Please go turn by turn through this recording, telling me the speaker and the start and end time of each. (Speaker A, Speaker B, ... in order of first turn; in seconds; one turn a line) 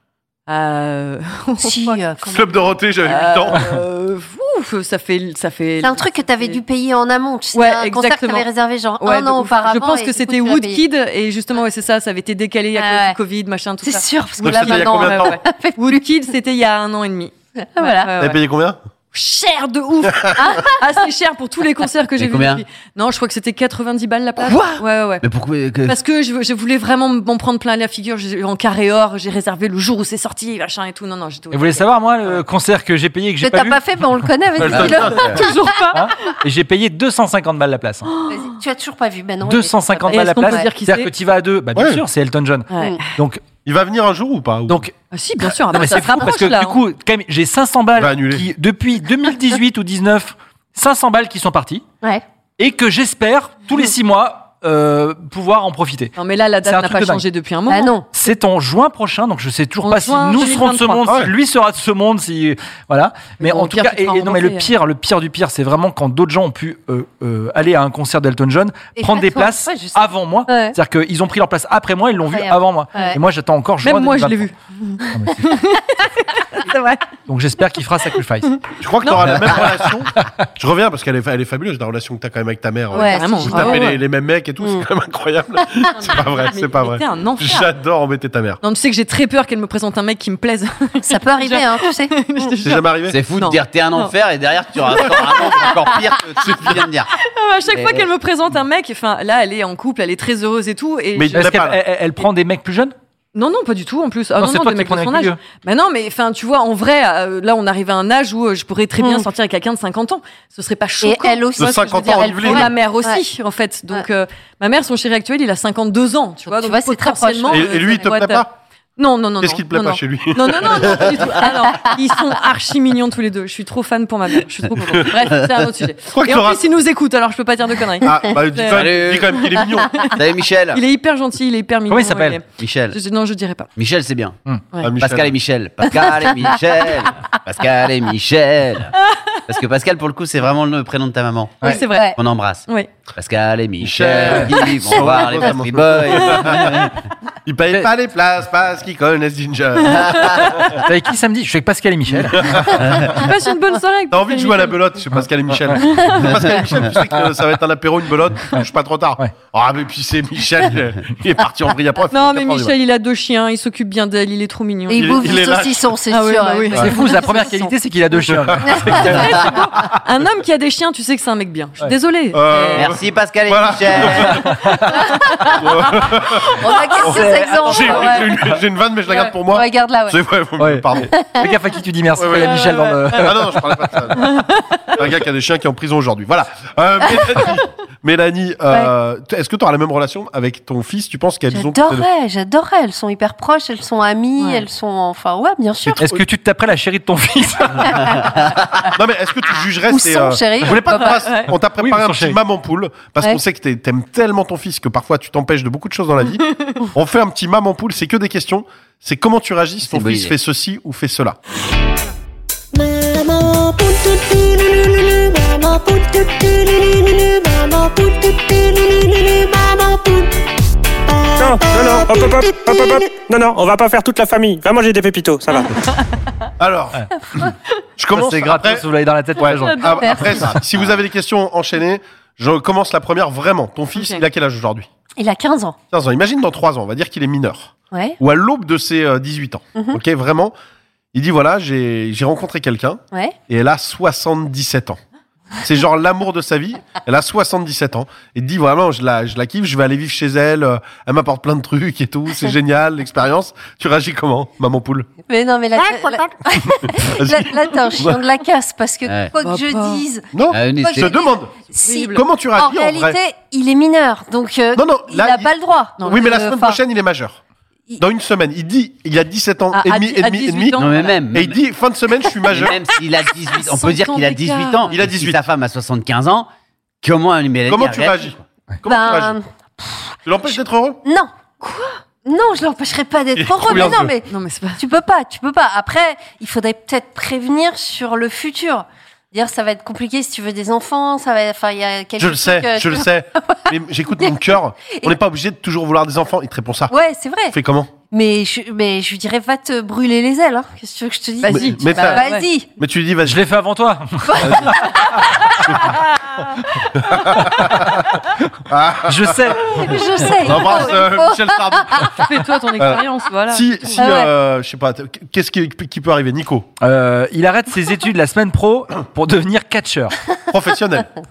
Speaker A: 0.5-2.0
Speaker B: 1.6-2.8
Speaker C: 2.3-3.8
Speaker A: 3.0-6.6
Speaker B: 5.8-10.8
Speaker A: 7.5-8.5
Speaker A: 9.0-18.4
Speaker B: 12.8-13.2
Speaker B: 13.8-16.3
Speaker C: 14.4-15.4
Speaker B: 17.6-18.1
Speaker C: 18.2-18.8
Speaker A: 19.1-25.2
Speaker C: 20.2-20.5
Speaker B: 20.4-20.9
Speaker D: 22.2-22.6
Speaker D: 25.2-26.0
Speaker A: 25.9-32.3
Speaker E: 31.5-33.9
Speaker B: 33.4-35.7
Speaker C: 34.6-35.3
Speaker D: 34.7-35.4
Speaker A: 35.0-36.0
Speaker E: 35.9-38.1
Speaker A: 38.1-38.4
Speaker B: 38.3-40.7
Speaker E: 39.5-43.4
Speaker A: 40.1-41.1
Speaker C: 41.8-42.0
Speaker A: 42.7-43.0
Speaker B: 42.8-43.0
Speaker C: 43.6-44.8
Speaker E: 44.7-44.9
Speaker A: 45.1-46.8
Speaker E: 45.7-51.8
Speaker C: 48.0-48.5
Speaker E: 52.6-56.1
Speaker A: 56.2-57.9
Speaker E: 56.6-57.2
Speaker B: 57.7-58.1
Speaker E: 58.1-74.5
Speaker A: 59.8-61.1
Speaker C: 61.1-61.3
Speaker A: 63.4-64.7
Speaker B: 69.0-70.8
Speaker B: 72.3-73.2
Speaker A: 73.8-77.0
Speaker E: 75.1-75.6
Speaker E: 77.3-78.5
Speaker A: 78.5-79.6
Speaker C: 78.8-88.6
Speaker A: 82.9-84.0
Speaker B: 82.9-84.0
Speaker B: 84.6-84.9
Speaker A: 85.9-87.7
Speaker A: 88.6-94.1
Speaker B: 91.0-92.5
Speaker C: 92.6-93.2
Speaker D: 93.1-97.1
Speaker A: 94.8-95.9
Speaker A: 97.2-101.5
Speaker D: 97.7-98.1
Speaker C: 101.2-101.8
Speaker E: 101.3-102.9
Speaker A: 103.3-118.5
Speaker E: 104.4-105.4
Speaker B: 109.0-109.3
Speaker B: 111.0-113.2
Speaker C: 111.6-112.7
Speaker B: 116.5-117.9
Speaker C: 117.5-118.5
Speaker A: 119.0-130.2
Speaker C: 119.4-121.4
Speaker B: 121.7-122.0
Speaker C: 126.1-126.6
Speaker C: 128.0-130.1
Speaker D: 128.7-129.4
Speaker D: 130.1-130.8
Speaker A: 130.7-133.7
Speaker E: 131.9-132.4
Speaker D: 132.6-133.0
Speaker D: 133.8-134.4
Speaker C: 134.8-135.3
Speaker D: 135.0-139.0
Speaker D: 139.5-146.9
Speaker A: 141.6-142.1
Speaker B: 141.7-142.2
Speaker C: 143.8-146.9
Speaker A: 146.2-146.7
Speaker C: 147.5-150.8
Speaker A: 150.0-150.8
Speaker E: 150.8-153.1
Speaker C: 152.1-153.3
Speaker A: 153.0-154.8
Speaker C: 154.1-162.7
Speaker A: 156.1-156.3
Speaker E: 156.9-157.2
Speaker A: 162.1-165.3
Speaker B: 164.9-167.7
Speaker C: 164.9-165.9
Speaker A: 166.1-167.2
Speaker E: 166.8-169.2
Speaker C: 168.3-169.6
Speaker B: 168.6-169.6
Speaker A: 168.9-172.9
Speaker C: 172.3-181.1
Speaker D: 172.7-174.4
Speaker E: 174.2-175.1
Speaker B: 174.9-175.2
Speaker A: 176.5-176.9
Speaker B: 176.6-178.4
Speaker E: 177.0-178.6
Speaker B: 179.1-180.2
Speaker E: 180.6-184.1
Speaker B: 181.1-181.5
Speaker C: 182.2-192.1
Speaker A: 182.5-182.9
Speaker A: 184.2-185.0
Speaker B: 187.1-187.4
Speaker B: 191.5-196.2
Speaker A: 194.4-194.6
Speaker C: 195.9-196.2
Speaker E: 196.0-198.3
Speaker C: 198.8-211.4
Speaker B: 199.9-201.2
Speaker A: 201.0-201.5
Speaker E: 201.8-202.4
Speaker A: 206.5-206.9
Speaker D: 209.8-210.4
Speaker F: 212.7-220.4
Speaker F: 221.1-223.2
Speaker G: 221.4-225.8
Speaker C: 226.6-228.9
Speaker E: 228.1-230.6
Speaker C: 229.4-234.9
Speaker A: 229.6-230.2
Speaker B: 230.0-230.5
Speaker A: 233.9-234.2
Speaker B: 235.2-235.8
Speaker C: 235.9-240.5
Speaker B: 237.9-238.2
Speaker B: 239.8-240.0
Speaker C: 241.1-245.0
Speaker C: 245.6-255.1
Speaker B: 255.3-266.8
Speaker C: 256.7-258.2
Speaker D: 259.1-259.3
Speaker A: 259.4-260.0
Speaker C: 260.3-261.5
Speaker D: 260.5-261.2
Speaker A: 261.8-262.2
Speaker C: 262.1-263.2
Speaker C: 264.8-265.5
Speaker C: 266.0-267.4
Speaker C: 268.0-272.9
Speaker A: 269.7-271.2
Speaker D: 270.8-271.6
Speaker D: 272.5-276.5
Speaker A: 273.6-274.9
Speaker C: 274.9-275.4
Speaker D: 277.0-278.4
Speaker C: 277.7-279.4
Speaker B: 278.9-280.5
Speaker C: 280.2-281.0
Speaker B: 281.0-281.3
Speaker A: 281.6-282.0
Speaker B: 282.2-295.2
Speaker C: 283.4-284.1
Speaker A: 283.8-284.8
Speaker C: 292.2-296.9
Speaker B: 296.9-297.6
Speaker C: 297.5-297.9
Speaker B: 298.1-302.8
Speaker A: 301.4-302.5
Speaker C: 301.5-302.2
Speaker C: 302.8-303.4
Speaker E: 303.2-304.9
Speaker B: 304.2-305.7
Speaker C: 304.4-304.8
Speaker C: 305.7-306.0
Speaker A: 305.8-306.9
Speaker C: 307.0-308.1
Speaker C: 308.7-316.7
Speaker E: 309.1-310.3
Speaker B: 309.7-312.3
Speaker A: 310.5-311.0
Speaker A: 312.1-313.7
Speaker B: 313.9-314.3
Speaker E: 316.8-320.2
Speaker C: 320.5-321.1